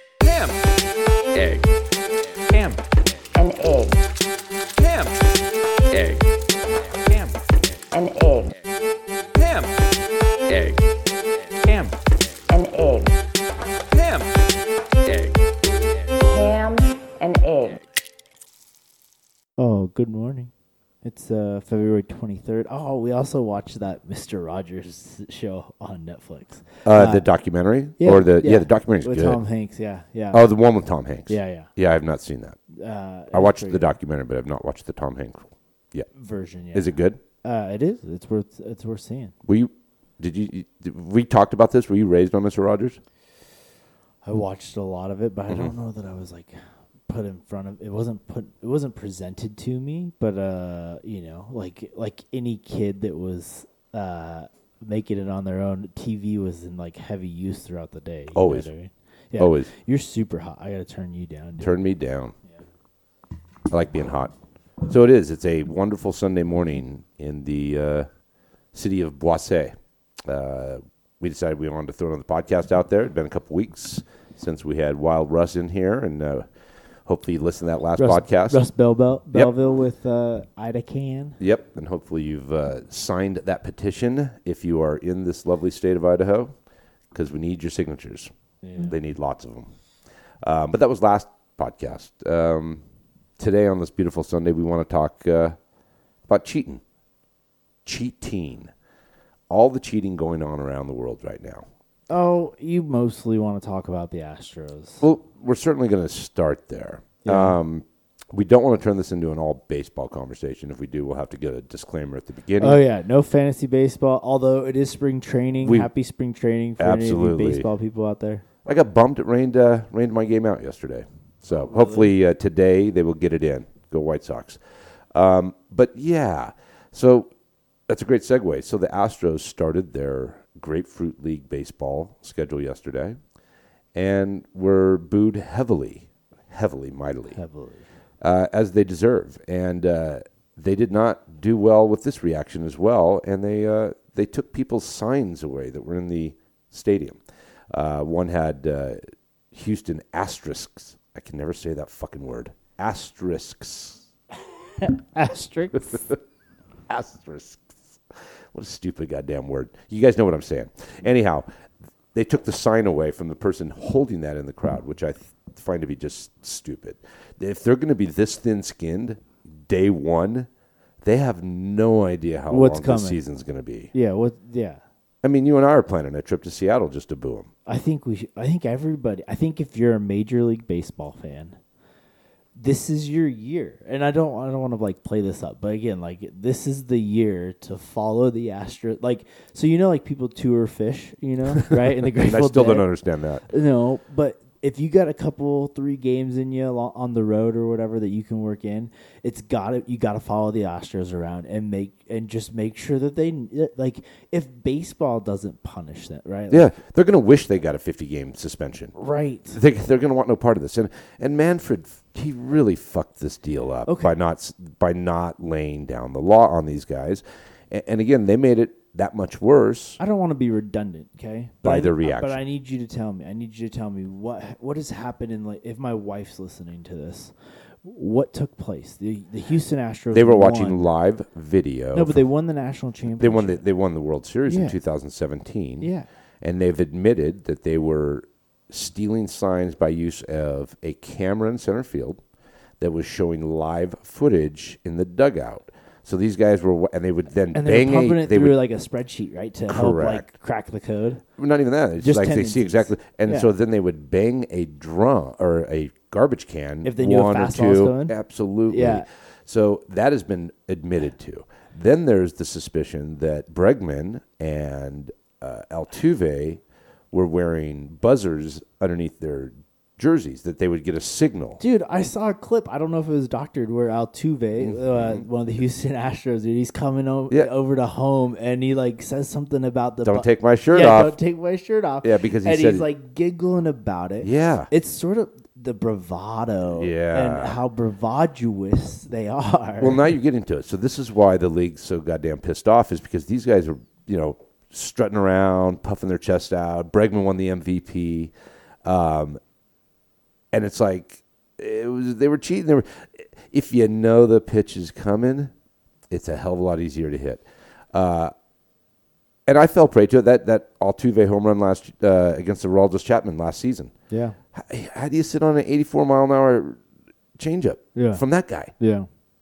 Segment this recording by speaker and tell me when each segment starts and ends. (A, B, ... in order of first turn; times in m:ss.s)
0:00.2-0:00.6 A
0:01.3-0:01.7 A
0:02.5-0:02.8 A
0:03.4-0:04.0 B
0:04.8-0:05.2 A
0:05.9-0:06.3 A
0:07.1-0:07.4 A
0:07.9-0:08.6 B
0:09.4-0:09.8 A
0:10.5-0:10.9 A
0:11.6-0:12.0 A
0:12.5-0:13.2 B
0:13.9-0:14.3 A
0:15.0-0:15.4 A
0:16.2-0:17.8 B
0:19.6-0:20.5 C
0:21.0-0:27.3 C
0:26.8-0:29.4 D
0:28.0-0:30.4 C
0:30.3-0:32.6 D
0:31.3-0:31.7 C
0:32.7-0:33.9 C
0:33.3-0:36.1 D
0:36.2-0:39.3 C
0:36.7-0:37.2 D
0:39.5-0:43.0 D
0:44.2-1:01.7 C
0:58.3-0:58.7 D
0:59.4-0:59.7 D
1:01.6-1:02.3 D
1:03.7-1:04.4 D
1:04.9-1:08.1 D
1:08.7-1:09.7 D
1:10.2-1:16.5 D
1:17.1-1:18.6 D
1:18.0-1:21.4 C
1:21.4-1:26.5 D
1:27.1-1:29.7 D
1:28.6-1:29.0 C
1:30.4-1:32.8 D
1:33.4-1:35.6 D
1:36.3-1:36.8 D
1:37.8-1:38.7 D
1:39.5-1:41.7 D
1:42.1-1:45.0 C
1:45.0-1:52.8 D
1:47.2-1:47.6 C
1:52.6-1:58.4 C
1:55.6-1:55.9 D
1:56.8-1:57.7 D
1:58.6-2:04.6 D
2:01.7-2:02.1 C
2:05.1-2:07.3 D
2:07.9-2:13.2 D
2:14.0-2:17.4 D
2:17.3-2:17.8 C
2:18.2-2:27.2 D
2:27.7-2:29.0 D
2:29.5-2:34.0 D
2:34.8-2:36.0 C
2:35.8-2:36.2 D
2:36.9-2:38.0 D
2:38.5-2:41.5 D
2:42.1-2:50.5 D
2:51.0-2:53.9 D
2:52.5-2:53.2 C
2:53.9-2:54.8 C
2:55.2-2:57.5 D
2:57.7-3:01.6 C
3:02.6-3:12.9 C
3:11.7-3:13.4 D
3:13.5-3:26.7 C
3:26.5-3:28.9 D
3:29.0-3:29.6 C
3:29.5-3:40.0 D
3:33.9-3:34.1 C
3:40.0-3:50.9 C
3:41.6-3:42.4 D
3:50.1-3:52.2 D
3:51.9-3:53.6 C
3:53.2-3:55.9 D
3:54.5-3:54.8 C
3:55.8-3:56.1 C
3:56.4-4:02.2 D
4:02.8-4:08.6 D
4:07.5-4:11.2 C
4:09.7-4:10.3 D
4:11.4-4:26.6 D
4:12.0-4:13.5 C
4:16.8-4:18.2 C
4:18.7-4:19.1 C
4:27.1-4:31.6 D
4:31.6-4:50.1 C
4:34.6-4:35.2 D
4:40.0-4:41.2 D
4:42.0-4:42.9 D
4:44.2-4:44.7 D
4:46.7-4:47.6 D
4:49.8-4:58.3 D
4:58.8-4:59.4 D
5:00.5-5:05.5 D
5:06.1-5:08.3 D
5:09.5-5:13.9 D
5:14.1-5:14.4 C
5:14.5-5:16.8 D
5:17.4-5:18.7 D
5:18.0-5:18.2 C
5:18.8-5:19.1 C